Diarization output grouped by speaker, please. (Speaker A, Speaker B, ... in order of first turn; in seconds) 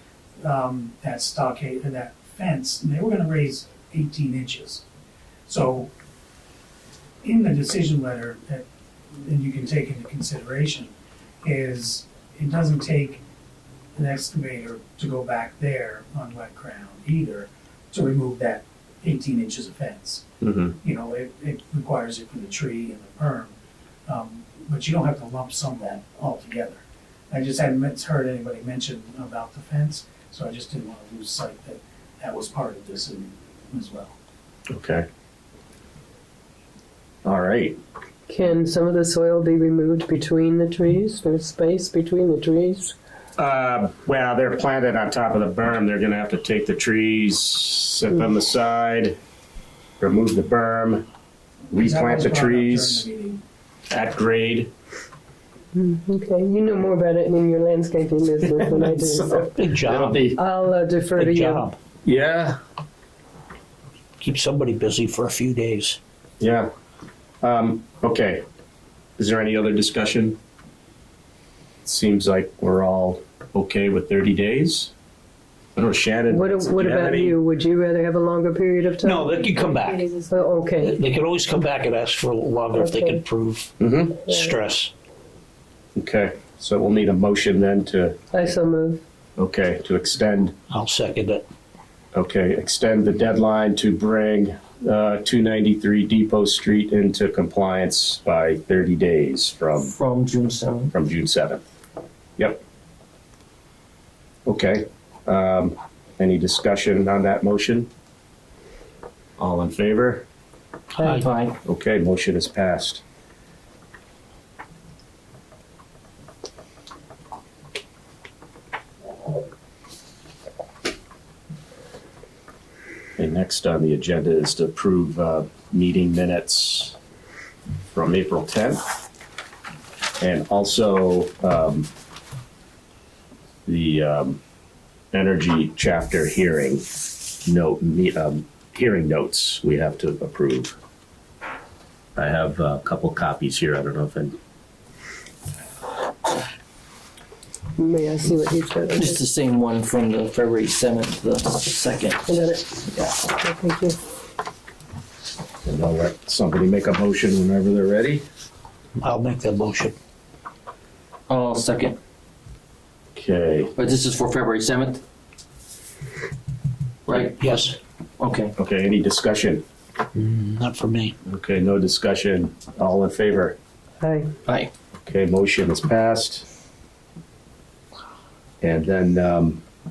Speaker A: 0.4-4.8, 5.5-5.9, 7.2-13.2, 13.9-20.3, 20.8-23.5, 24.1-34.2, 51.8-53.4
Speaker B: 20.4-20.8, 34.7-35.1, 37.2-37.8, 43.4-49.2, 50.0-51.0, 51.7-53.0, 53.9-54.7, 58.5-60.4, 62.0-62.6, 66.4-66.7, 67.4-68.5, 69.2-70.4, 71.8-74.9, 75.8-77.4, 83.8-84.2, 86.0-88.2, 89.4-90.5, 92.1-99.9, 100.9-101.7, 104.5-107.9, 109.4-110.2, 111.6-113.0, 123.2-127.0, 127.9-128.8, 130.2-131.9, 133.7-134.4, 135.1-136.9, 137.4-140.8, 142.2-144.3, 155.6-158.2, 163.2-163.7, 168.6-169.6, 171.3-173.6, 175.1-176.5, 178.6-179.6
Speaker C: 38.3-43.0, 55.8-59.5, 60.3-61.7, 76.3-79.3, 80.3-81.0, 82.8-83.2, 84.2-84.5, 88.3-89.0, 147.8-149.2, 152.3-152.7, 153.2-154.0, 174.0-174.3
Speaker D: 59.4-60.3, 61.1-61.8, 64.2-66.0, 79.0-84.9, 90.7-91.5, 159.0-159.9, 167.4-167.8, 170.2-171.2
Speaker E: 99.8-100.9, 111.1-111.6, 148.9-153.2, 161.3-162.0, 163.8-165.0, 167.1-167.7, 168.2-168.6